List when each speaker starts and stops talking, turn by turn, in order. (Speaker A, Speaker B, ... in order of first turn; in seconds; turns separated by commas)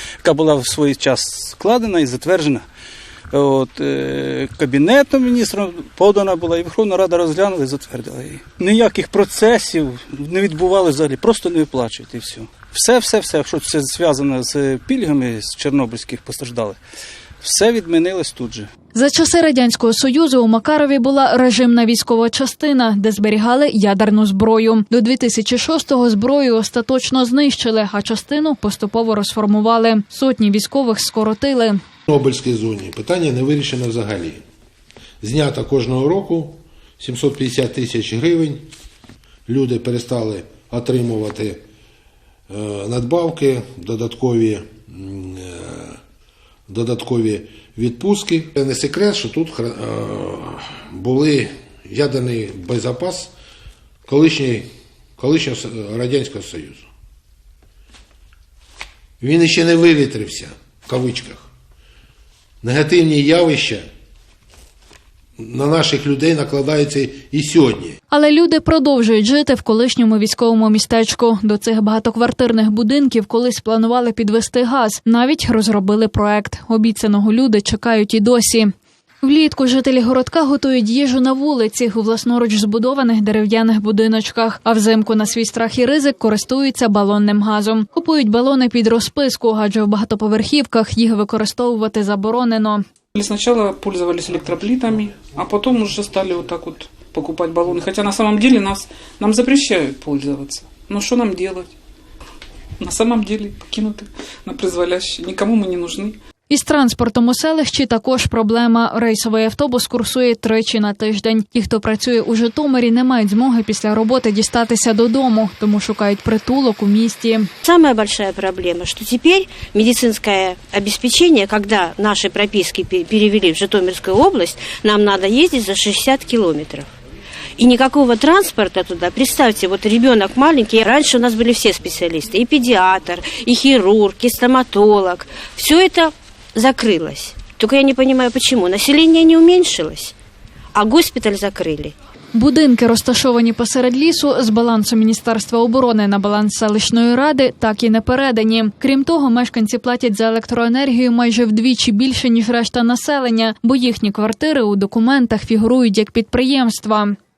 Speaker A: 0.2-2.6, Speaker A: 3.3-16.8, Speaker A: 17.4-18.7, Speaker B: 18.9-31.8, Speaker C: 32.1-34.4, Speaker C: 35.2-38.7, Speaker C: 39.5-41.6, Speaker C: 42.5-46.0, Speaker C: 46.7-53.3, Speaker C: 54.1-56.9, Speaker C: 59.2-61.5, Speaker C: 62.6-63.9, Speaker C: 65.4-68.0, Speaker B: 68.1-92.8, Speaker D: 93.1-101.7, Speaker D: 102.8-106.2, Speaker B: 106.5-117.5, Speaker E: 117.6-126.9, Speaker E: 127.6-140.1, Speaker E: 140.8-141.9, Speaker B: 142.3-157.2